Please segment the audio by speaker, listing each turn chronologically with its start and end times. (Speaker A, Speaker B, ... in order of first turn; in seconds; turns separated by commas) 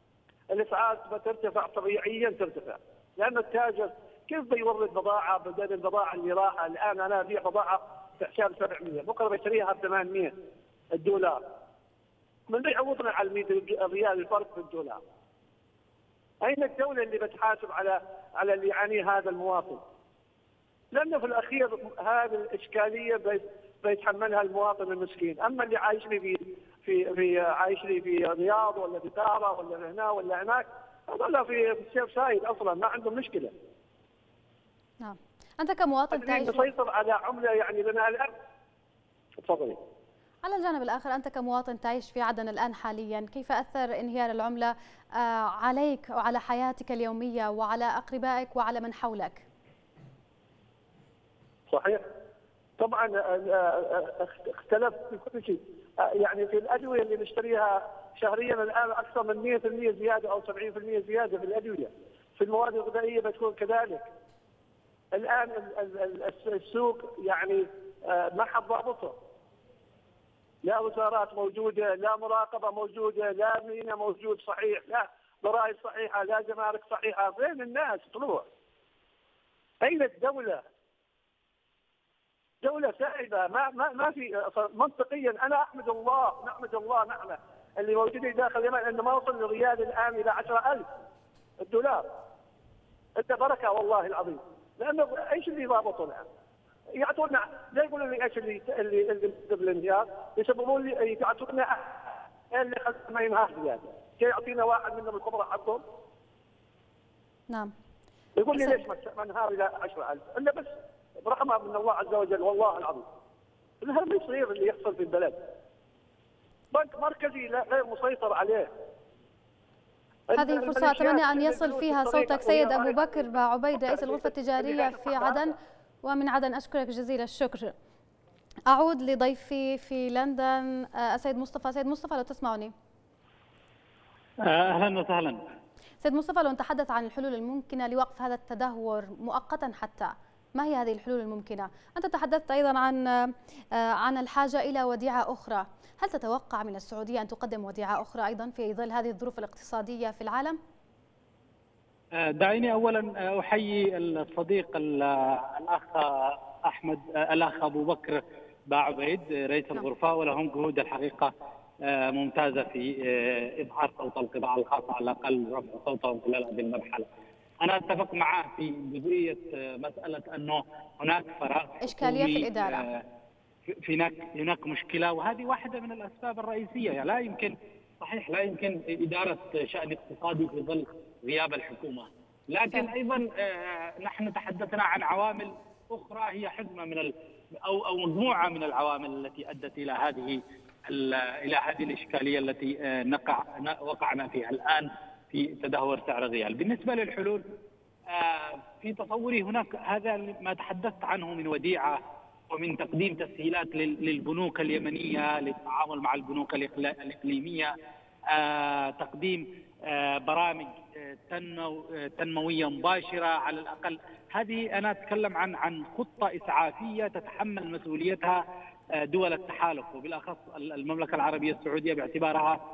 Speaker A: 0.5-10.3, Speaker A: 10.9-11.4, Speaker A: 12.5-15.0, Speaker A: 16.4-19.8, Speaker A: 20.9-33.5, Speaker B: 35.0-36.7, Speaker A: 36.1-38.3, Speaker A: 39.4-39.8, Speaker B: 40.4-49.5, Speaker A: 51.7-52.0, Speaker A: 52.8-64.1, Speaker A: 65.1-69.2, Speaker A: 70.6-78.5, Speaker A: 79.8-80.6, Speaker A: 82.6-90.9, Speaker A: 91.6-92.1, Speaker A: 93.2-96.3, Speaker A: 97.0-105.8, Speaker A: 108.4-113.0, Speaker A: 113.8-115.4, Speaker A: 116.7-118.7, Speaker A: 120.3-123.2, Speaker B: 120.4-127.7, Speaker A: 123.8-125.5, Speaker B: 128.7-132.7, Speaker C: 134.5-135.4, Speaker B: 136.0-150.6, Speaker C: 152.2-161.3, Speaker C: 161.8-167.1, Speaker C: 167.6-173.0, Speaker B: 171.8-172.9, Speaker C: 173.7-197.4, Speaker C: 198.1-202.0, Speaker C: 202.5-207.7, Speaker C: 208.3-218.4, Speaker C: 219.0-222.6